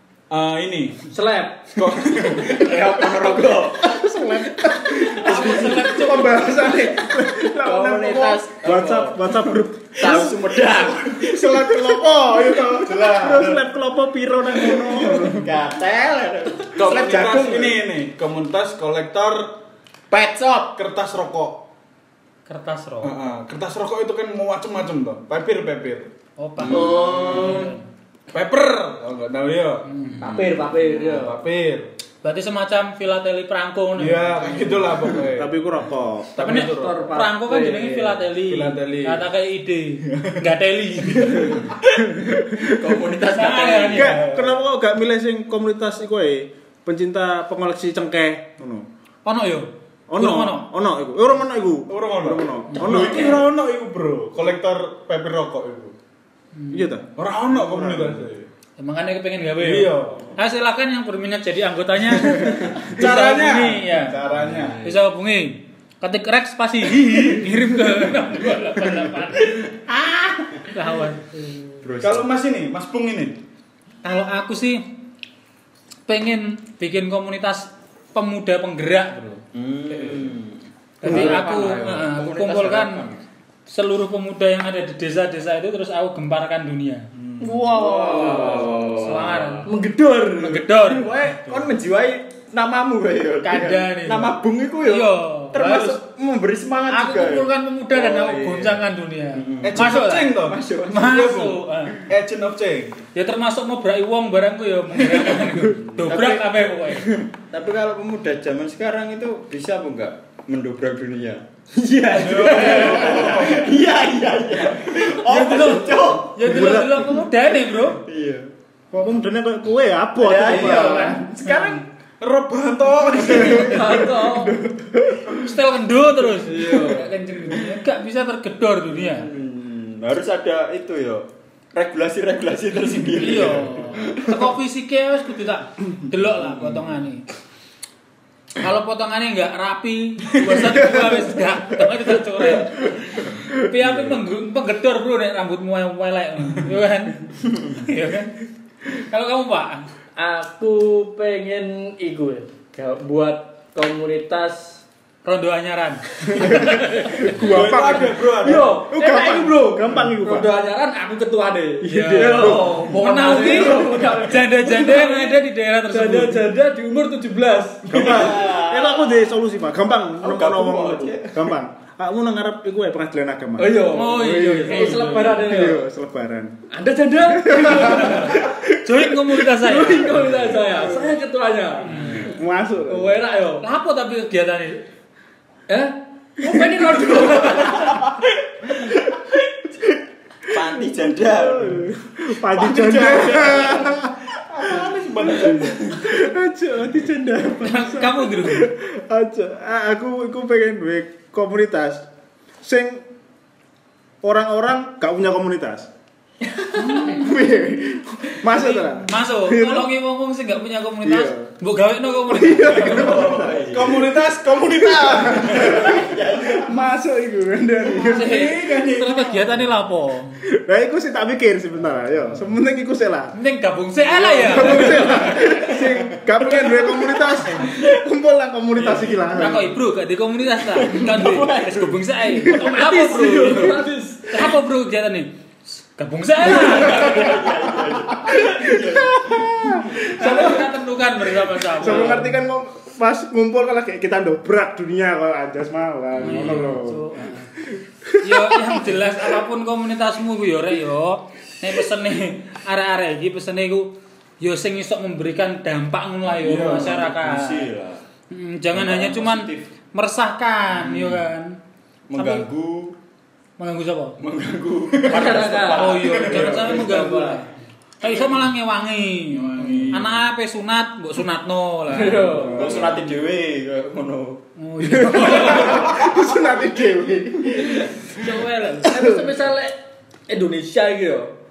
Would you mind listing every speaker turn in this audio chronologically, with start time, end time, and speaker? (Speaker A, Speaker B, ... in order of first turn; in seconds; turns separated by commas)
Speaker A: 0.3-1.0, Speaker B: 1.1-2.6, Speaker A: 1.7-3.1, Speaker C: 2.4-4.0, Speaker D: 3.7-15.5, Speaker E: 5.1-6.7, Speaker C: 5.3-5.5, Speaker C: 7.4-12.0, Speaker A: 12.5-13.6, Speaker C: 14.7-17.8, Speaker A: 16.7-19.6, Speaker C: 20.1-20.8, Speaker A: 20.7-21.6, Speaker E: 22.5-23.1, Speaker A: 23.0-26.1, Speaker E: 26.4-27.8, Speaker C: 26.6-27.7, Speaker A: 26.8-27.5, Speaker A: 28.3-29.9, Speaker E: 29.9-30.3, Speaker B: 30.2-31.4, Speaker C: 30.2-30.7, Speaker A: 30.8-31.9, Speaker E: 32.2-34.9, Speaker A: 34.0-35.6, Speaker D: 35.3-36.4, Speaker A: 36.3-37.1, Speaker E: 36.4-41.6, Speaker B: 36.4-38.2, Speaker A: 38.4-39.2, Speaker A: 40.1-40.4, Speaker A: 41.2-42.1, Speaker D: 42.1-42.9, Speaker C: 42.6-44.3, Speaker E: 43.3-44.2, Speaker D: 43.9-48.9, Speaker A: 44.3-44.5, Speaker E: 49.2-50.7, Speaker D: 50.1-53.5, Speaker A: 51.9-55.9, Speaker E: 56.5-56.9, Speaker D: 56.7-58.3, Speaker A: 57.1-58.5, Speaker E: 58.8-64.2, Speaker A: 59.6-60.3, Speaker A: 62.4-64.8, Speaker C: 64.3-65.0, Speaker E: 64.8-69.5, Speaker C: 69.8-70.7, Speaker E: 70.7-71.2, Speaker C: 71.8-72.3, Speaker A: 72.0-73.4, Speaker E: 74.0-74.9, Speaker E: 76.1-80.2, Speaker C: 79.5-83.2, Speaker E: 81.0-83.0, Speaker B: 81.0-81.6, Speaker E: 83.7-87.1, Speaker A: 87.2-87.7, Speaker B: 87.4-88.7, Speaker C: 87.6-89.7, Speaker E: 87.8-89.7, Speaker A: 88.3-88.8, Speaker B: 89.7-90.6, Speaker E: 90.3-91.2, Speaker C: 90.8-101.2, Speaker A: 91.2-91.7, Speaker E: 93.4-96.0, Speaker E: 96.9-102.0, Speaker A: 99.6-103.0, Speaker E: 103.1-107.1, Speaker C: 105.4-116.8, Speaker A: 112.1-113.8, Speaker E: 112.2-113.3, Speaker E: 115.2-118.0, Speaker B: 115.3-116.0, Speaker D: 116.4-117.4, Speaker C: 118.0-118.5, Speaker D: 118.9-121.2, Speaker C: 120.2-121.8, Speaker E: 120.5-121.8, Speaker A: 122.2-124.0, Speaker D: 123.2-125.4, Speaker B: 123.5-124.6, Speaker E: 125.4-129.3, Speaker A: 126.4-127.0, Speaker B: 126.5-127.0, Speaker C: 128.9-134.3, Speaker E: 133.2-137.2, Speaker E: 138.6-148.3, Speaker D: 140.8-141.2, Speaker C: 143.8-144.2, Speaker E: 148.9-149.8, Speaker B: 150.2-154.8, Speaker E: 155.2-157.4, Speaker D: 156.3-160.5, Speaker A: 157.4-158.8, Speaker B: 158.4-165.3, Speaker E: 161.8-166.4, Speaker C: 162.2-164.2, Speaker D: 162.3-162.9, Speaker B: 165.9-168.3, Speaker D: 167.9-174.3, Speaker C: 167.9-169.3, Speaker C: 170.2-171.5, Speaker B: 173.6-175.8, Speaker E: 173.9-175.5, Speaker D: 175.4-176.5, Speaker B: 176.7-178.5, Speaker D: 177.2-178.7, Speaker E: 178.0-180.2, Speaker B: 179.5-181.9, Speaker D: 180.6-181.2, Speaker E: 181.8-182.3, Speaker C: 181.9-182.3, Speaker D: 182.1-183.2, Speaker B: 182.9-183.6, Speaker E: 183.6-184.8, Speaker B: 185.7-188.1, Speaker D: 186.5-187.7, Speaker C: 187.5-187.9, Speaker C: 190.5-191.9, Speaker D: 190.5-202.1, Speaker A: 192.5-196.0, Speaker E: 197.6-198.7, Speaker D: 202.6-203.0, Speaker D: 204.2-205.9, Speaker E: 206.7-207.4, Speaker D: 206.8-209.9, Speaker E: 208.5-213.3, Speaker D: 211.0-211.5, Speaker D: 212.3-213.6, Speaker C: 212.7-213.9, Speaker A: 213.3-216.0, Speaker D: 214.7-218.5, Speaker C: 215.5-216.7, Speaker E: 217.9-220.3, Speaker A: 218.2-219.2, Speaker D: 220.4-223.3, Speaker E: 223.3-225.3, Speaker D: 224.1-229.8, Speaker C: 224.8-226.0, Speaker E: 229.3-237.4, Speaker C: 230.7-232.1, Speaker B: 232.4-234.5, Speaker C: 236.4-239.8, Speaker D: 236.9-240.6, Speaker E: 240.1-242.3, Speaker B: 240.2-240.6, Speaker D: 241.7-247.0, Speaker C: 246.2-246.6, Speaker E: 246.2-247.5, Speaker D: 247.7-248.8, Speaker E: 248.2-257.7, Speaker C: 256.4-258.0, Speaker A: 256.4-257.1, Speaker E: 258.3-261.6, Speaker C: 258.7-259.7, Speaker C: 260.7-261.2, Speaker C: 262.1-262.9, Speaker E: 262.1-262.5, Speaker E: 263.6-264.2, Speaker C: 264.2-266.9, Speaker A: 265.0-265.3, Speaker B: 265.1-267.4, Speaker E: 265.6-267.5, Speaker E: 268.0-272.5, Speaker C: 269.5-270.1, Speaker A: 269.6-270.0, Speaker B: 271.9-272.9, Speaker C: 272.4-274.4, Speaker D: 272.4-273.0, Speaker E: 274.6-275.9, Speaker D: 274.8-278.0, Speaker C: 274.9-275.6, Speaker E: 278.1-278.9, Speaker B: 278.8-279.8, Speaker D: 278.8-279.3, Speaker B: 280.3-281.3